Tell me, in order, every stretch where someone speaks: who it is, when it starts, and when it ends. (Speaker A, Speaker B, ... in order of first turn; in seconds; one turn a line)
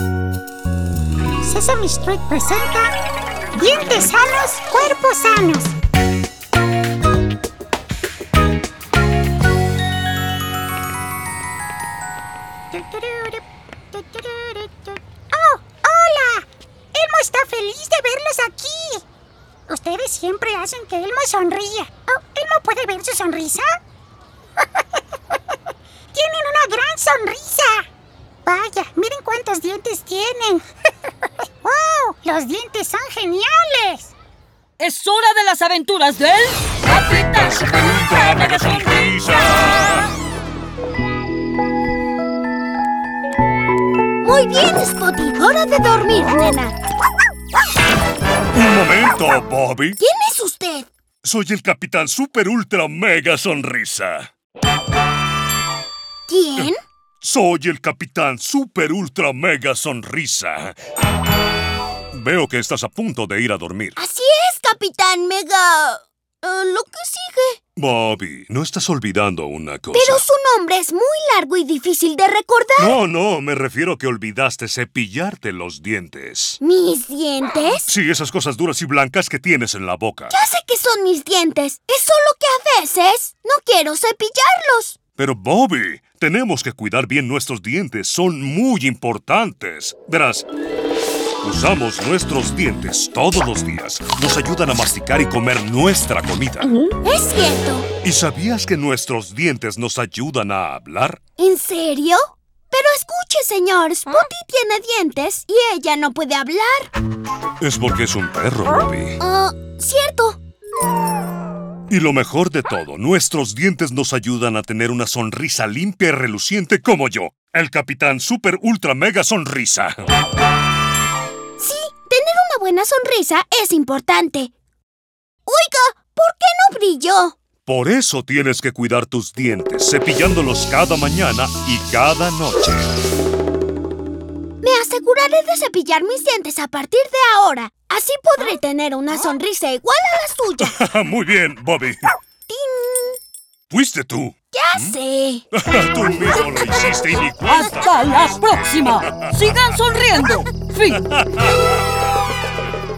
Speaker A: 1.4-2.9
Speaker A: 3.6-5.7
Speaker A: 12.7-13.4
Speaker A: 13.9-14.7
Speaker A: 15.3-19.0
Speaker A: 19.7-23.8
Speaker A: 26.1-27.8
Speaker A: 28.4-30.6
Speaker A: 31.6-34.1
Speaker B: 34.8-37.2
Speaker C: 37.1-40.1
Speaker D: 44.2-46.7
Speaker C: 48.5-50.0
Speaker D: 50.0-50.9
Speaker C: 51.2-54.3
Speaker D: 56.3-56.8
Speaker C: 57.2-60.8
Speaker C: 62.1-64.0
Speaker D: 64.0-67.6
Speaker C: 67.8-70.2
Speaker D: 69.9-73.0
Speaker C: 72.8-76.6
Speaker D: 76.6-77.9
Speaker C: 77.9-80.3
Speaker D: 80.3-85.0
Speaker C: 85.2-90.5
Speaker C: 91.4-96.7
Speaker D: 97.0-97.9
Speaker C: 98.0-101.2
Speaker D: 101.4-106.9
Speaker C: 107.6-109.2
Speaker D: 109.2-110.4
Speaker C: 111.9-120.0
Speaker D: 121.6-124.5
Speaker D: 125.5-127.3
Speaker C: 127.7-132.9
Speaker D: 134.6-140.7
Speaker C: 140.6-142.0
Speaker D: 142.5-143.2
Speaker C: 143.7-144.9
Speaker D: 144.5-145.4
Speaker C: 145.5-149.3
Speaker B: 147.6-151.0
Speaker C: 150.9-151.6